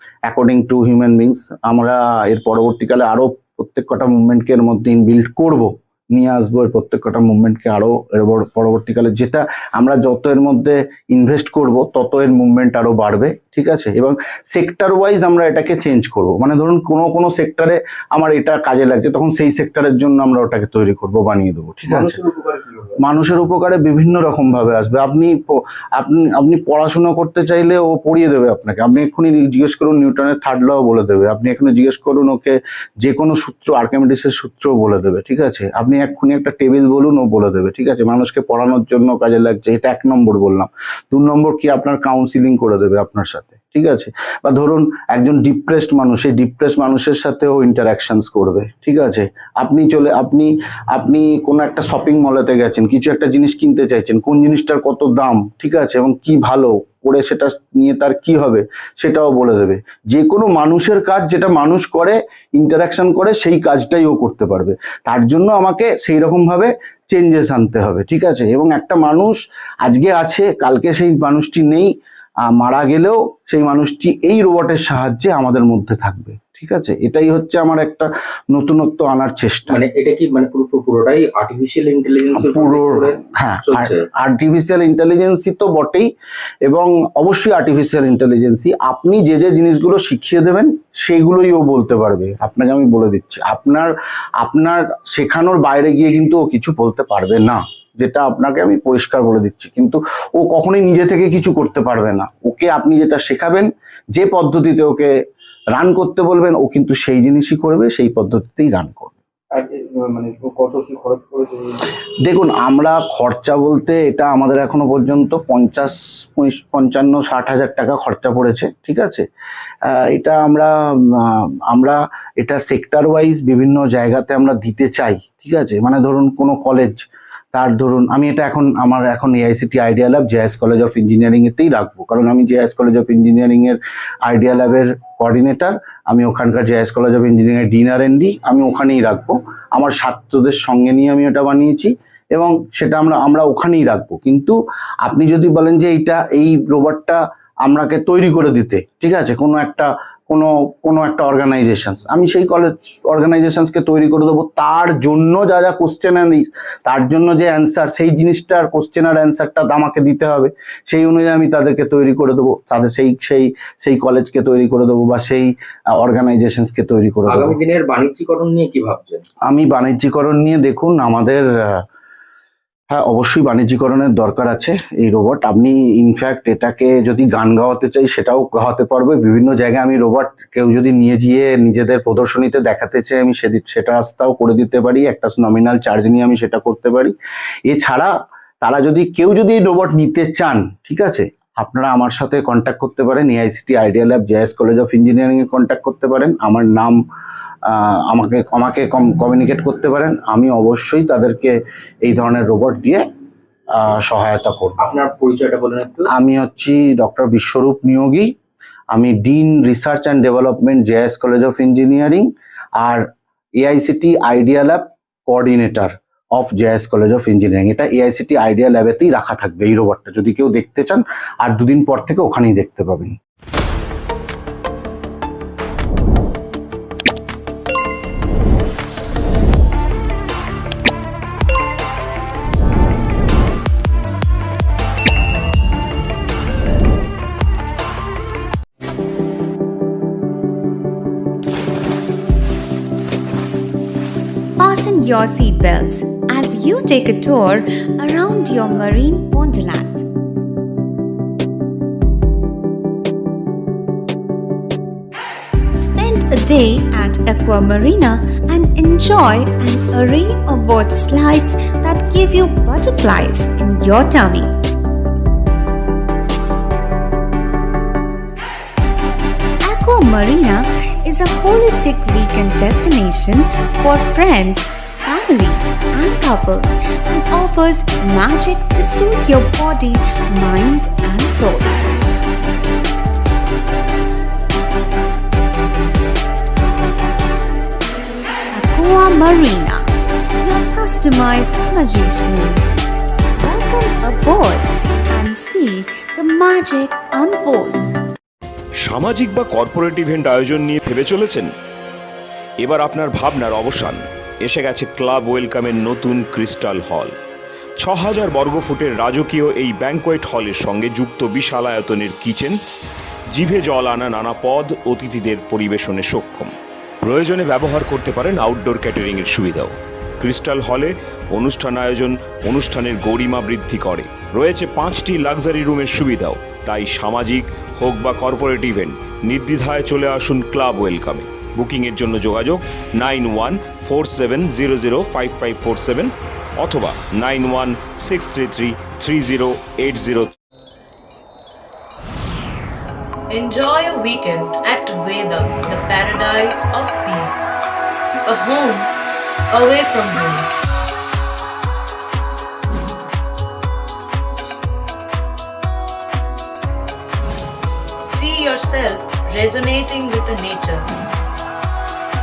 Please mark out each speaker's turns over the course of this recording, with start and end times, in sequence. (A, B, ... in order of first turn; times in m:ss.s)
0:00.2-0:22.2 A
0:21.9-0:23.0 B
0:23.0-1:11.9 A
1:12.5-1:19.8 A
1:19.7-1:24.0 C
1:22.3-1:26.1 A
1:26.6-1:45.1 A
1:45.7-1:49.2 A
1:49.5-1:51.7 B
1:52.2-1:59.2 A
1:59.8-2:47.6 A
2:47.3-2:49.2 C
2:49.5-2:51.8 A
2:52.9-3:07.1 A
3:07.6-3:17.0 A
3:17.6-3:23.0 A
3:23.7-3:24.8 A
3:24.8-3:26.1 C
3:26.1-3:28.3 A
3:28.9-3:33.0 A
3:33.6-3:43.2 A
4:04.6-4:10.0 D
4:15.8-4:24.5 D
4:29.6-4:41.8 D
4:48.5-4:49.9 D
4:50.4-4:52.6 D
4:53.4-4:57.9 D
4:58.8-5:01.5 E
5:02.6-5:07.1 E
5:07.8-5:12.6 E
5:13.3-5:40.3 E
5:43.3-5:47.5 F
5:48.2-5:48.9 F
5:49.5-5:50.5 F
5:58.1-6:00.9 F